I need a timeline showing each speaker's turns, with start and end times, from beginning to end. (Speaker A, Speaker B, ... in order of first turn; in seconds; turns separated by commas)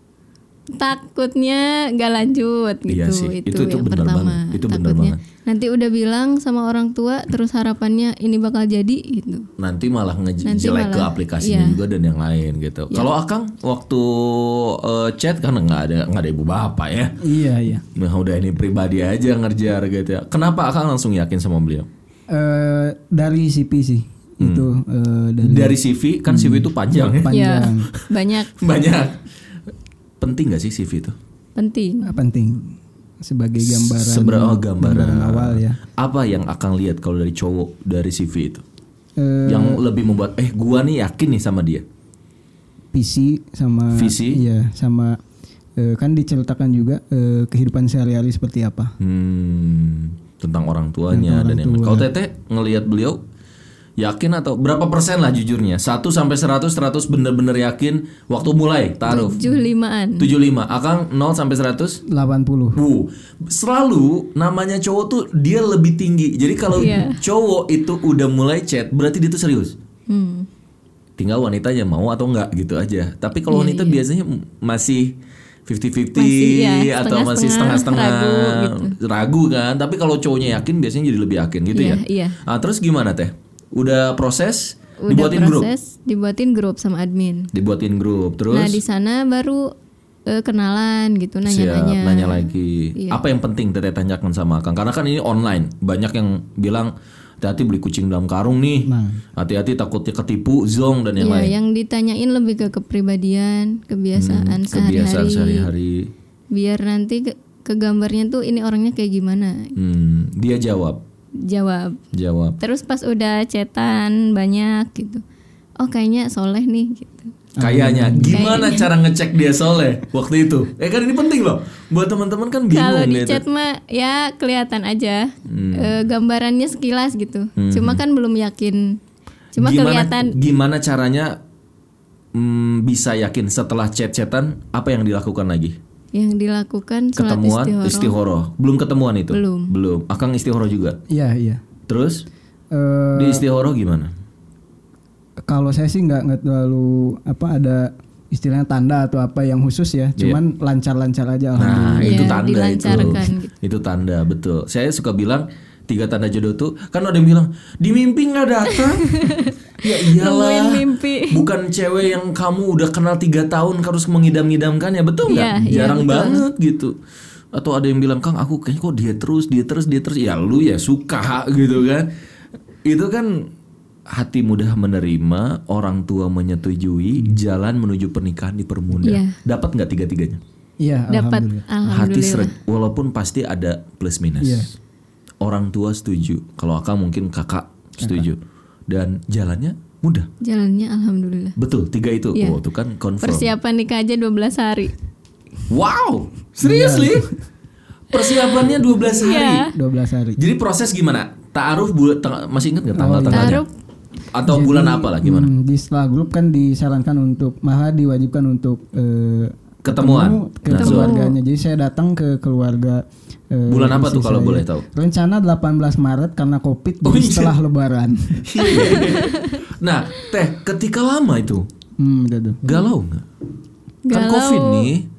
Speaker A: 0.8-9.5, Speaker B: 2.9-5.2, Speaker B: 9.6-17.2, Speaker A: 10.4-11.8, Speaker C: 17.2-17.9, Speaker B: 17.9-21.9, Speaker C: 22.3-27.9, Speaker B: 24.4-24.7, Speaker B: 25.4-27.3, Speaker A: 27.3-28.6, Speaker B: 27.9-29.2, Speaker B: 30.2-31.1, Speaker A: 31.6-32.1, Speaker C: 32.0-35.8, Speaker B: 33.6-38.6, Speaker C: 39.2-39.8, Speaker B: 39.5-41.9, Speaker C: 42.9-45.2, Speaker B: 43.9-44.4, Speaker C: 45.8-48.9, Speaker B: 49.0-53.2, Speaker C: 51.1-52.1, Speaker B: 54.0-59.4, Speaker A: 59.1-60.3, Speaker B: 60.2-62.0, Speaker C: 62.1-62.8, Speaker B: 62.8-69.8, Speaker A: 66.8-67.2, Speaker A: 70.1-70.5, Speaker B: 71.2-85.7, Speaker A: 73.5-74.0, Speaker A: 76.2-79.0, Speaker A: 81.7-82.4, Speaker A: 85.0-87.5, Speaker B: 87.5-88.8, Speaker A: 88.5-89.7, Speaker A: 90.3-93.2, Speaker B: 91.5-101.5, Speaker C: 98.8-99.2, Speaker A: 101.2-105.7, Speaker B: 104.1-106.1, Speaker A: 106.5-109.8, Speaker B: 109.8-111.0, Speaker A: 111.4-112.0, Speaker B: 112.1-112.6, Speaker A: 112.6-115.2, Speaker A: 115.8-117.4, Speaker C: 117.6-118.5, Speaker B: 117.6-123.4, Speaker A: 118.2-118.9, Speaker A: 122.7-129.0, Speaker B: 125.5-126.0, Speaker B: 127.6-128.0, Speaker A: 129.6-130.4, Speaker B: 129.6-131.4, Speaker B: 132.3-135.8, Speaker A: 136.1-138.2, Speaker B: 137.2-141.0, Speaker A: 139.3-139.7, Speaker C: 141.1-141.6, Speaker B: 141.9-142.3, Speaker C: 142.7-143.4, Speaker B: 143.2-144.1, Speaker C: 145.5-153.3, Speaker B: 151.6-167.0, Speaker A: 152.0-153.5, Speaker A: 158.7-161.5, Speaker A: 165.3-166.4, Speaker B: 167.5-172.1, Speaker B: 172.8-173.5, Speaker B: 174.1-180.4, Speaker A: 179.0-179.4, Speaker C: 180.8-181.7, Speaker A: 181.1-182.5, Speaker B: 181.9-184.7, Speaker C: 184.4-184.7, Speaker B: 185.4-190.3, Speaker C: 188.0-188.3, Speaker A: 190.4-191.6, Speaker B: 191.6-193.5, Speaker A: 192.3-192.6, Speaker A: 193.2-194.9, Speaker B: 195.7-197.3, Speaker C: 196.6-197.3, Speaker B: 198.1-199.7, Speaker A: 199.2-199.8, Speaker C: 199.7-200.4, Speaker B: 200.4-203.7, Speaker C: 202.9-203.6, Speaker A: 203.3-203.7, Speaker B: 204.3-205.5, Speaker C: 204.5-218.8, Speaker B: 209.8-211.2, Speaker A: 210.7-211.4, Speaker B: 213.7-214.9, Speaker B: 217.0-217.6, Speaker B: 218.4-221.7, Speaker A: 218.6-219.6, Speaker C: 222.0-222.6, Speaker B: 222.6-223.3, Speaker A: 224.1-224.9, Speaker B: 224.1-225.1